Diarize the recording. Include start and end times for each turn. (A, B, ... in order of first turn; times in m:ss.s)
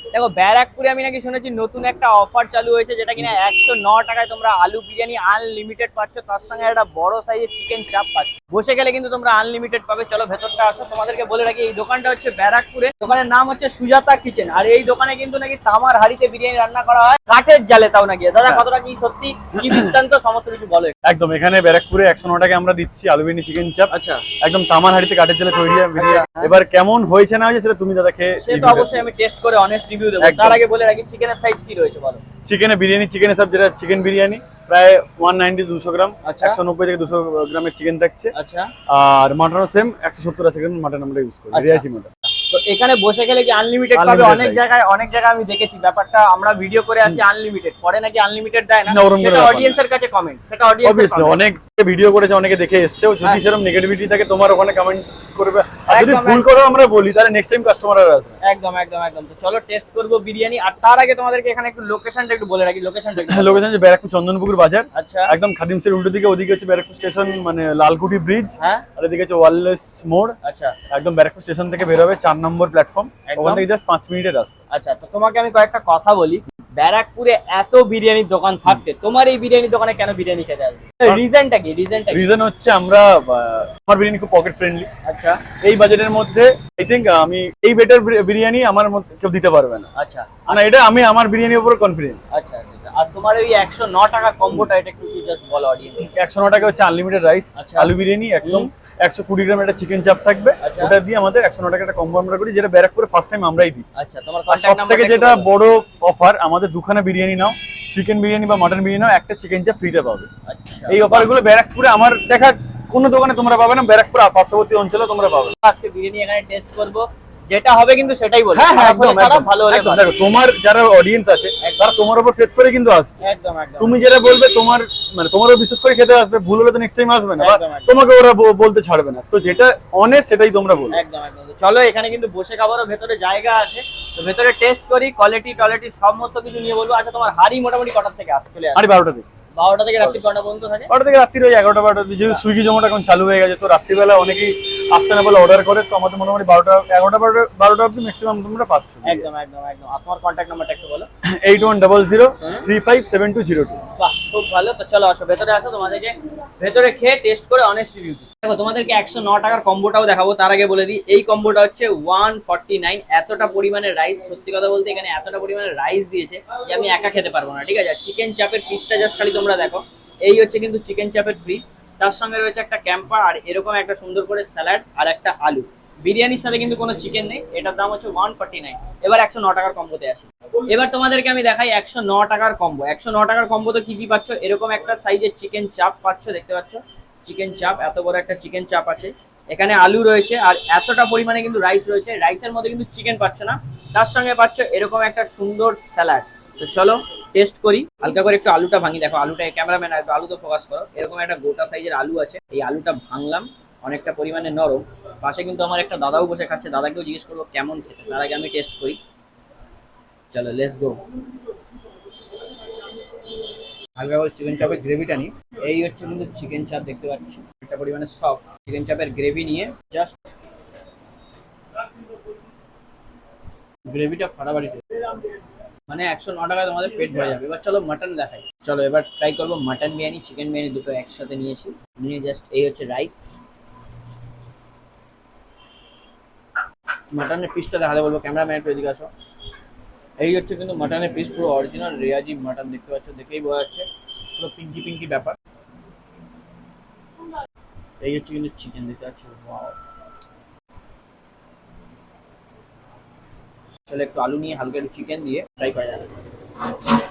0:00.1-0:20.9 A
0:19.6-0:19.9 B
0:21.0-0:29.1 B
0:23.9-0:24.2 A
0:26.0-0:26.5 A
0:28.4-0:32.2 A
0:30.2-0:30.6 B
0:32.4-0:38.3 B
0:36.2-0:36.6 A
0:38.3-0:38.7 A
0:38.9-0:42.1 B
0:41.5-0:41.8 A
0:42.4-0:51.4 A
0:43.9-0:44.7 B
0:48.8-0:49.8 B
0:50.8-0:58.3 B
0:55.8-0:56.4 A
0:58.4-1:03.6 A
1:03.2-1:10.4 B
1:04.9-1:05.3 A
1:08.6-1:08.8 A
1:10.4-1:10.8 A
1:10.9-1:14.6 B
1:13.2-1:13.6 A
1:14.7-1:22.2 A
1:22.1-1:24.9 B
1:25.0-1:25.4 A
1:25.6-1:29.9 B
1:29.9-1:30.6 A
1:30.5-1:32.2 B
1:32.3-1:36.1 A
1:36.0-1:43.9 B
1:37.6-1:37.9 A
1:38.4-1:38.7 A
1:40.6-1:40.9 A
1:44.0-1:45.5 A
1:44.5-1:50.3 B
1:50.5-1:51.3 A
1:50.9-1:55.5 B
1:55.6-2:00.0 A
1:58.5-2:03.1 B
2:01.6-2:01.9 A
2:03.2-2:04.0 A
2:03.8-2:11.0 B
2:07.4-2:08.0 A
2:10.9-2:18.8 A
2:18.7-2:19.2 B
2:19.6-2:20.9 A
2:20.9-2:29.2 B
2:29.0-2:31.1 A
2:31.4-2:33.8 B
2:34.0-3:29.0 A
3:30.3-3:31.0 A
3:34.0-3:40.2 A
3:43.9-3:45.3 A
3:45.9-3:53.2 A
3:57.1-3:59.1 A
4:00.2-4:03.8 A
4:04.4-4:05.4 A
4:08.0-4:09.8 A
4:13.9-4:16.1 A